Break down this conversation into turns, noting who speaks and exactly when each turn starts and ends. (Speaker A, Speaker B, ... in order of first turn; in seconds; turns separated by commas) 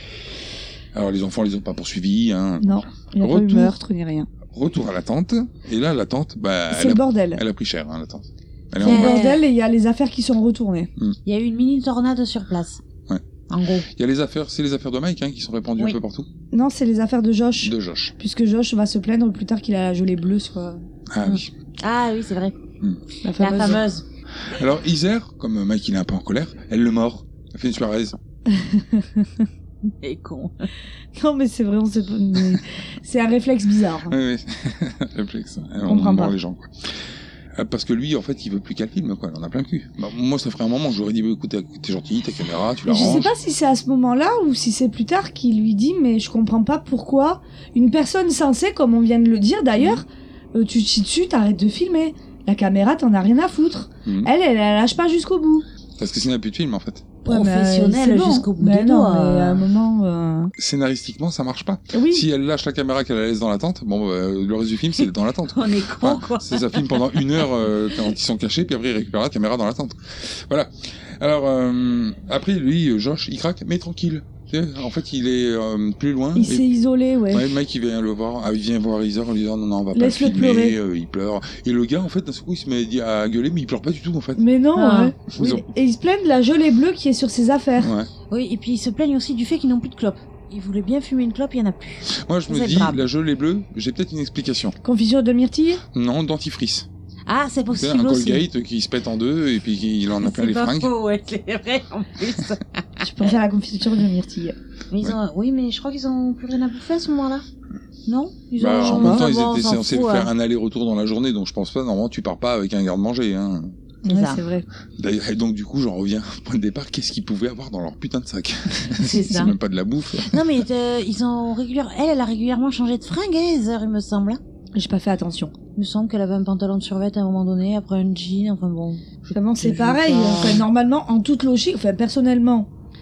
Speaker A: 0.9-3.8, Speaker B: 2.6-4.3, Speaker A: 4.5-9.2, Speaker B: 6.7-7.4, Speaker C: 8.8-9.4, Speaker B: 8.8-10.9, Speaker C: 11.2-12.8, Speaker C: 13.5-13.9, Speaker A: 13.9-16.3, Speaker B: 16.5-20.8, Speaker A: 17.6-18.1, Speaker A: 21.1-21.5, Speaker C: 21.2-22.6, Speaker B: 23.2-23.8, Speaker C: 23.4-24.0, Speaker A: 24.4-28.2, Speaker B: 28.5-29.4, Speaker C: 29.9-30.7, Speaker B: 31.1-34.1, Speaker A: 34.1-37.0, Speaker B: 35.9-36.4, Speaker A: 37.5-43.3, Speaker B: 42.8-55.6, Speaker A: 49.8-50.0, Speaker A: 54.0-54.3, Speaker A: 56.0-57.1, Speaker B: 57.2-60.5, Speaker C: 57.3-59.7, Speaker A: 60.6-76.7, Speaker B: 61.9-62.2, Speaker C: 65.5-67.3, Speaker B: 76.3-77.5, Speaker A: 77.3-84.4, Speaker B: 79.9-80.8, Speaker B: 84.4-87.9, Speaker C: 84.8-85.1, Speaker A: 85.3-85.7, Speaker A: 87.8-88.1, Speaker C: 88.3-93.0, Speaker A: 92.1-94.8, Speaker B: 94.8-95.8, Speaker A: 95.9-96.9, Speaker C: 97.3-98.4, Speaker A: 97.7-100.9, Speaker C: 100.2-103.3, Speaker B: 103.0-104.5, Speaker C: 104.9-107.4, Speaker C: 108.0-110.3, Speaker A: 108.6-113.7, Speaker B: 108.7-109.2, Speaker B: 114.0-114.7, Speaker C: 114.0-114.4, Speaker A: 115.0-120.6, Speaker C: 119.0-119.5, Speaker C: 120.2-124.4, Speaker B: 124.7-125.5, Speaker C: 125.7-130.7, Speaker B: 129.3-132.7